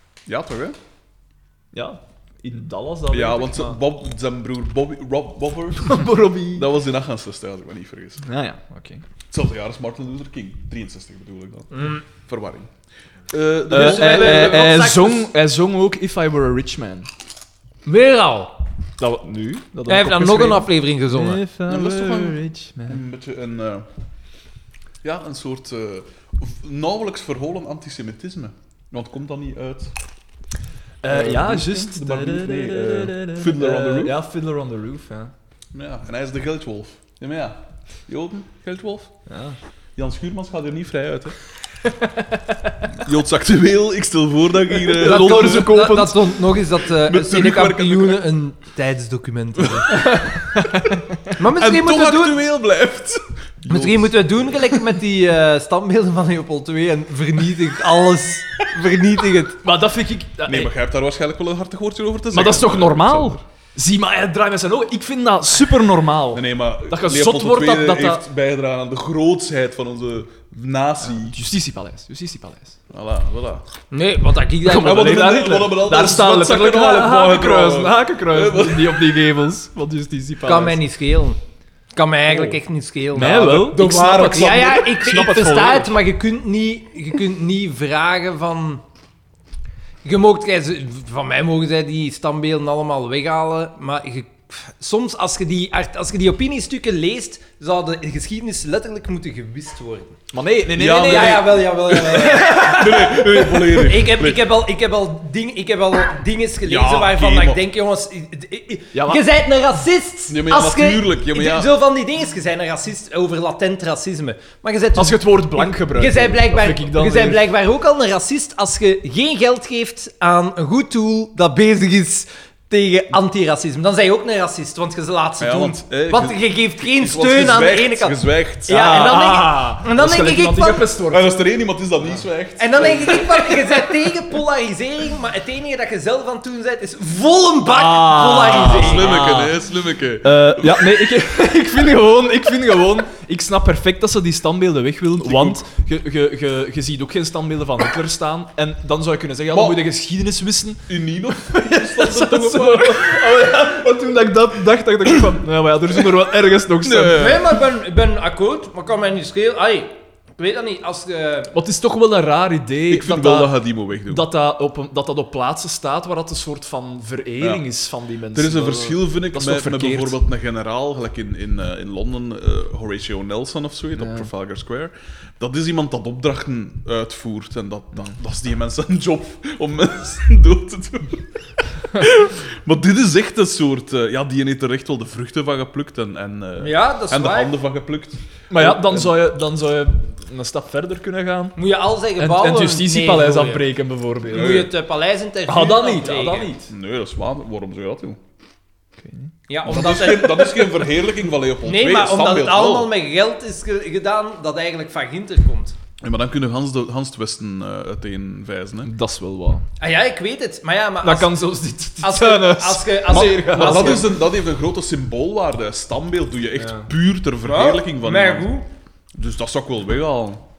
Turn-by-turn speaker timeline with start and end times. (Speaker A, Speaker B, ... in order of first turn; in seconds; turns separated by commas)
Speaker A: 0.3-0.8, Speaker B: 1.7-3.8, Speaker A: 3.1-8.2, Speaker B: 5.8-6.7, Speaker B: 8.2-9.0, Speaker A: 9.3-12.7, Speaker C: 11.7-12.0, Speaker A: 13.3-15.1, Speaker B: 13.7-17.1, Speaker C: 13.7-15.2, Speaker C: 17.9-18.6, Speaker B: 19.0-23.0, Speaker C: 19.9-21.4, Speaker A: 21.7-23.9, Speaker A: 25.0-29.9, Speaker B: 31.0-35.3, Speaker A: 31.1-34.2, Speaker A: 35.7-39.1, Speaker B: 39.3-39.6, Speaker A: 40.0-41.4, Speaker A: 42.9-45.8, Speaker B: 44.8-46.4, Speaker C: 45.0-50.3, Speaker A: 46.9-48.2, Speaker A: 49.7-50.1, Speaker B: 50.7-51.1, Speaker C: 51.3-52.4, Speaker A: 51.6-54.8, Speaker C: 53.7-59.6, Speaker B: 59.6-60.7, Speaker A: 60.5-63.4, Speaker B: 62.3-68.2, Speaker A: 66.3-71.4, Speaker B: 71.0-72.8, Speaker A: 72.9-73.6, Speaker C: 73.9-75.3, Speaker B: 74.7-80.8, Speaker A: 74.7-79.1, Speaker C: 80.5-81.4, Speaker C: 82.0-88.8, Speaker A: 82.3-82.6, Speaker A: 83.1-84.8, Speaker B: 83.1-86.0, Speaker C: 90.0-100.2, Speaker B: 100.3-102.8, Speaker A: 100.8-104.6, Speaker C: 101.0-130.9, Speaker A: 106.7-107.6, Speaker B: 108.9-109.3, Speaker A: 110.3-111.8, Speaker B: 115.0-117.5, Speaker A: 125.4-128.8, Speaker B: 128.7-131.5, Speaker A: 131.1-133.6, Speaker C: 132.6-139.2, Speaker B: 137.7-139.6, Speaker A: 138.5-141.1, Speaker B: 140.2-157.4, Speaker A: 145.2-145.6, Speaker A: 149.5-149.8, Speaker A: 150.9-153.5, Speaker A: 156.8-157.5, Speaker C: 157.1-161.5, Speaker B: 161.5-163.5, Speaker A: 162.9-164.3, Speaker B: 164.1-170.2, Speaker A: 167.4-167.7, Speaker A: 168.3-181.3, Speaker B: 173.9-174.3, Speaker A: 181.8-189.2, Speaker C: 186.6-187.5, Speaker B: 188.5-191.6, Speaker C: 191.6-193.7, Speaker B: 192.2-194.7, Speaker C: 194.3-196.5, Speaker A: 194.3-194.7, Speaker B: 195.5-196.7, Speaker A: 196.7-198.2, Speaker B: 199.0-199.3, Speaker C: 199.5-200.8, Speaker A: 199.7-202.9, Speaker C: 201.6-205.8, Speaker A: 206.0-208.9, Speaker B: 208.8-209.7, Speaker C: 209.8-214.1, Speaker B: 211.0-214.1, Speaker A: 213.1-218.5, Speaker B: 216.6-216.9, Speaker C: 217.4-218.7, Speaker A: 219.2-220.4